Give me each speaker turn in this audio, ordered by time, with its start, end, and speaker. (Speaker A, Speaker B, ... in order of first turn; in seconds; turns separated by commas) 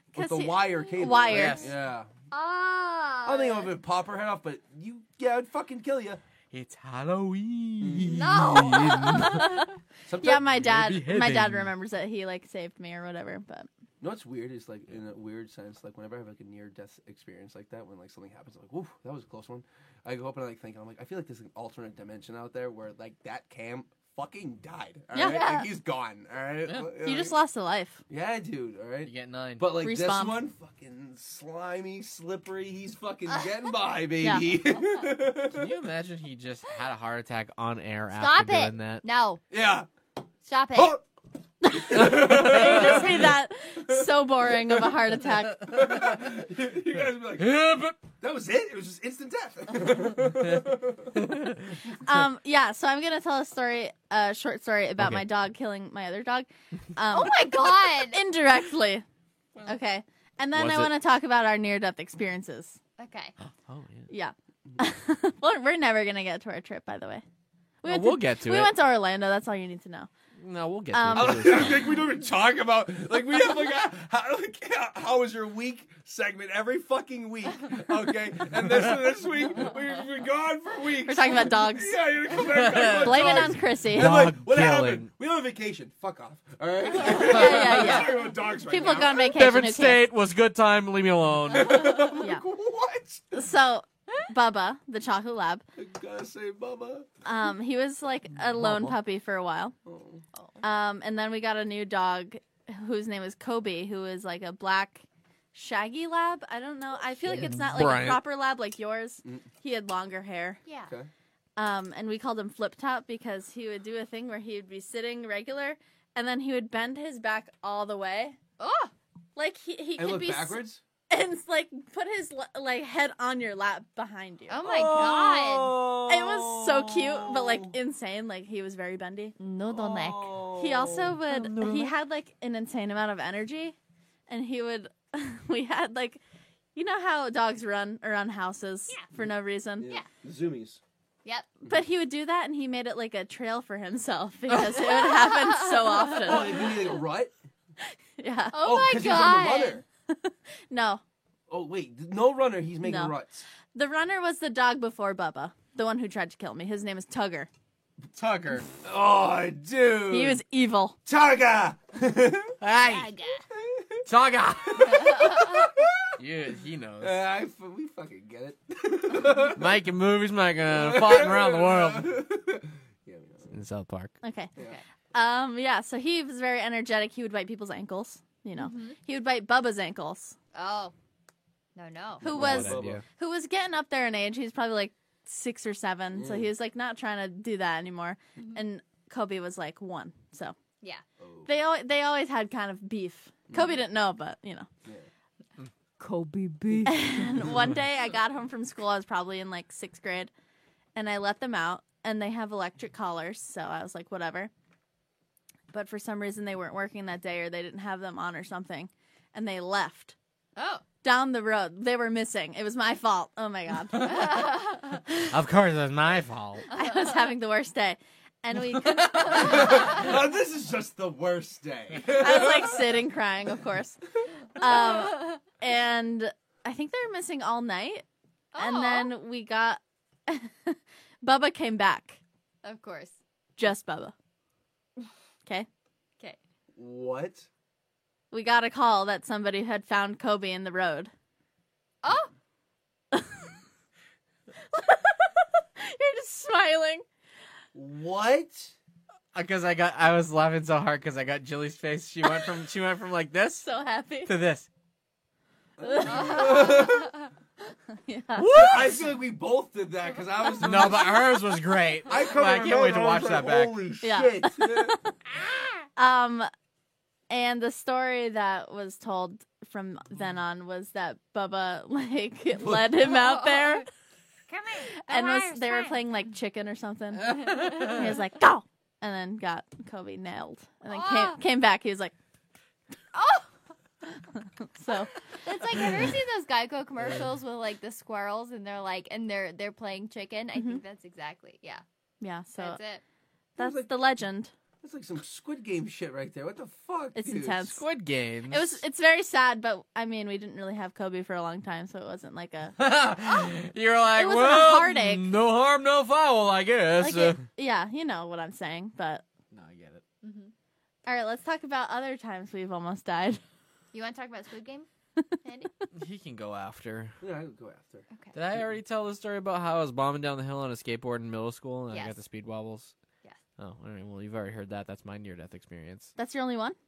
Speaker A: 0.1-1.7, Speaker B: 0.1-2.1, Speaker C: 1.3-1.7, Speaker D: 2.3-3.7, Speaker B: 3.2-6.2, Speaker C: 6.5-9.6, Speaker B: 7.8-8.9, Speaker D: 8.0-9.6, Speaker A: 9.1-9.6, Speaker B: 10.1-10.5, Speaker A: 10.2-13.7, Speaker C: 10.4-11.7, Speaker B: 14.0-27.4, Speaker A: 25.1-25.7, Speaker D: 25.3-25.6, Speaker A: 27.0-28.0, Speaker B: 28.1-35.8, Speaker C: 29.0-29.7, Speaker A: 29.8-30.4, Speaker C: 35.5-39.0, Speaker D: 38.1-39.4, Speaker B: 39.5-39.9, Speaker D: 40.4-41.0, Speaker B: 40.7-41.0, Speaker A: 41.6-45.8, Speaker B: 41.7-43.3, Speaker C: 42.0-42.9, Speaker B: 45.6-51.2, Speaker C: 47.4-47.9, Speaker C: 51.1-51.7, Speaker A: 52.0-59.0, Speaker C: 55.0-55.2, Speaker D: 57.1-58.2, Speaker A: 59.6-62.8, Speaker C: 60.5-60.9, Speaker D: 63.0-63.3, Speaker C: 63.4-64.1, Speaker A: 64.1-67.2, Speaker A: 67.8-70.1, Speaker C: 67.8-68.7, Speaker C: 70.4-72.0, Speaker A: 70.9-71.8, Speaker B: 71.1-89.5, Speaker A: 81.0-82.0, Speaker C: 82.5-85.1, Speaker A: 82.8-84.2, Speaker A: 87.0-90.1, Speaker C: 89.3-92.0, Speaker B: 91.5-93.4, Speaker A: 92.1-92.4, Speaker A: 93.3-95.6, Speaker B: 95.8-97.1, Speaker A: 97.2-99.7, Speaker C: 98.6-99.0, Speaker B: 99.8-100.2, Speaker D: 100.3-100.6, Speaker A: 100.6-110.6, Speaker C: 107.2-108.2, Speaker D: 110.6-110.9, Speaker A: 111.6-118.4, Speaker D: 118.6-118.9, Speaker A: 119.3-124.6, Speaker B: 120.0-120.8, Speaker D: 124.5-125.8, Speaker B: 124.6-127.7, Speaker A: 126.1-129.3, Speaker D: 129.4-130.4, Speaker B: 129.7-131.2, Speaker A: 130.5-133.7, Speaker C: 131.3-131.9, Speaker A: 134.3-136.2, Speaker A: 136.7-139.9, Speaker B: 139.8-140.8, Speaker A: 141.7-146.7, Speaker D: 145.2-145.6, Speaker B: 146.1-147.3, Speaker A: 148.2-148.6, Speaker D: 148.5-149.8, Speaker B: 148.6-149.8, Speaker A: 150.1-151.0, Speaker B: 151.5-153.4, Speaker A: 152.8-153.1, Speaker A: 153.7-157.5, Speaker C: 158.1-158.7, Speaker B: 158.8-160.4, Speaker A: 160.1-160.9, Speaker B: 161.1-162.6, Speaker C: 162.6-163.1, Speaker D: 162.8-163.4, Speaker B: 163.5-164.1, Speaker C: 164.1-165.7, Speaker B: 164.7-166.1, Speaker C: 166.2-167.2, Speaker B: 167.0-169.8, Speaker C: 169.5-172.2, Speaker B: 170.7-173.5, Speaker C: 173.5-174.1, Speaker A: 174.2-174.5, Speaker A: 175.1-180.3, Speaker D: 178.6-179.0, Speaker D: 180.5-180.9, Speaker D: 181.8-182.2, Speaker B: 182.2-183.0, Speaker A: 182.2-190.5, Speaker C: 182.2-183.0, Speaker B: 186.1-186.5, Speaker B: 191.2-191.5, Speaker A: 191.4-194.7, Speaker B: 193.5-193.8, Speaker D: 196.0-197.2, Speaker A: 196.8-200.3, Speaker A: 200.9-204.5, Speaker A: 205.7-210.1, Speaker D: 210.6-210.8, Speaker A: 211.0-214.5, Speaker D: 214.0-215.0, Speaker C: 215.3-216.7, Speaker D: 216.7-217.1, Speaker A: 216.7-219.9, Speaker B: 219.0-222.9, Speaker A: 222.1-224.0, Speaker A: 224.5-228.0, Speaker D: 228.5-229.1, Speaker A: 228.6-232.2, Speaker D: 232.6-233.2, Speaker A: 233.6-234.1, Speaker B: 236.7-237.5, Speaker A: 238.3-241.1, Speaker D: 242.0-242.3, Speaker A: 243.1-243.4, Speaker A: 244.7-247.0, Speaker B: 247.7-248.7, Speaker C: 249.3-253.7, Speaker A: 253.6-254.3, Speaker C: 254.2-254.7, Speaker B: 255.8-257.2, Speaker A: 255.8-256.9, Speaker D: 256.1-256.9, Speaker A: 258.0-258.7, Speaker C: 258.3-259.1, Speaker B: 258.5-265.0, Speaker C: 260.6-263.8, Speaker A: 264.0-265.0, Speaker D: 265.4-265.7, Speaker A: 265.9-266.5, Speaker A: 267.3-273.8, Speaker B: 272.6-273.0, Speaker D: 273.0-273.8, Speaker D: 274.5-276.0, Speaker A: 275.1-282.1, Speaker C: 277.4-277.9, Speaker D: 277.4-278.0, Speaker D: 280.9-281.4, Speaker D: 283.1-283.5, Speaker A: 284.2-285.3, Speaker D: 285.4-291.8, Speaker A: 290.5-290.8, Speaker A: 292.2-292.8, Speaker D: 292.6-293.0, Speaker A: 293.6-294.5, Speaker B: 293.6-293.9, Speaker B: 294.8-297.8, Speaker A: 297.1-297.8, Speaker C: 297.7-298.8, Speaker A: 298.5-302.8, Speaker C: 302.8-307.4, Speaker A: 304.1-305.3, Speaker A: 307.0-309.2, Speaker C: 309.5-310.0, Speaker D: 310.2-310.5, Speaker A: 311.1-313.4, Speaker D: 313.9-314.9, Speaker D: 315.4-315.7, Speaker C: 315.9-317.2, Speaker B: 317.2-318.1, Speaker D: 318.1-318.4, Speaker C: 318.3-322.9, Speaker D: 321.9-322.2, Speaker C: 323.6-326.1, Speaker A: 326.2-326.8